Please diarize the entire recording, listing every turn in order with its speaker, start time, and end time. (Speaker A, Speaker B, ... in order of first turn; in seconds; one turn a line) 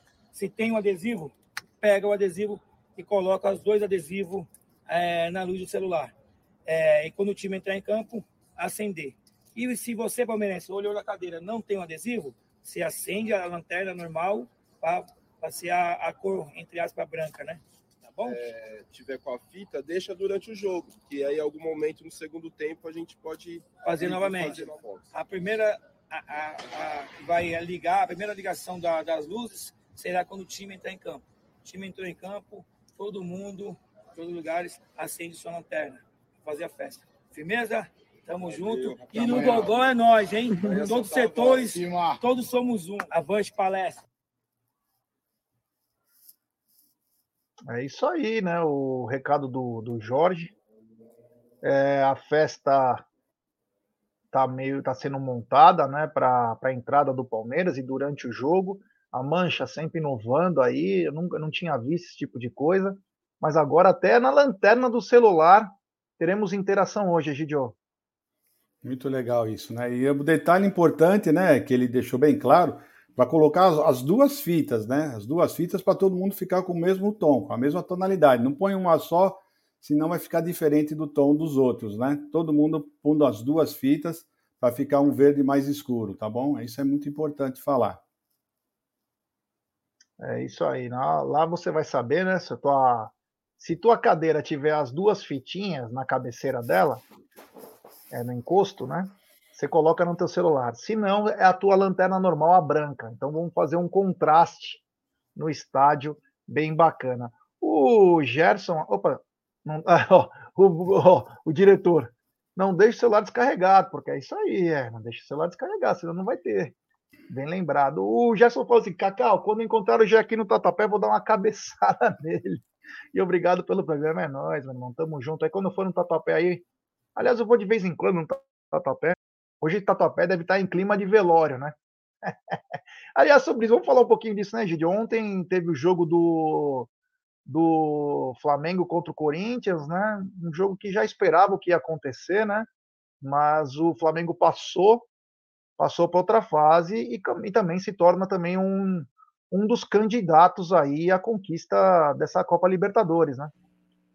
Speaker A: 0.3-6.2
Speaker A: 6.7-18.5
Speaker B: 18.2-25.1
Speaker A: 23.8-44.0
Speaker B: 38.4-39.9
Speaker B: 40.6-41.9
Speaker C: 47.7-50.5
Speaker C: 51.6-53.0
Speaker C: 54.3-67.8
Speaker D: 68.8-88.0
Speaker C: 90.2-97.0
Speaker C: 98.1-104.8
Speaker C: 105.4-116.8
Speaker C: 117.3-122.6
Speaker C: 123.1-126.7
Speaker C: 127.2-136.9
Speaker C: 137.5-142.7
Speaker C: 143.2-145.1
Speaker C: 145.8-153.5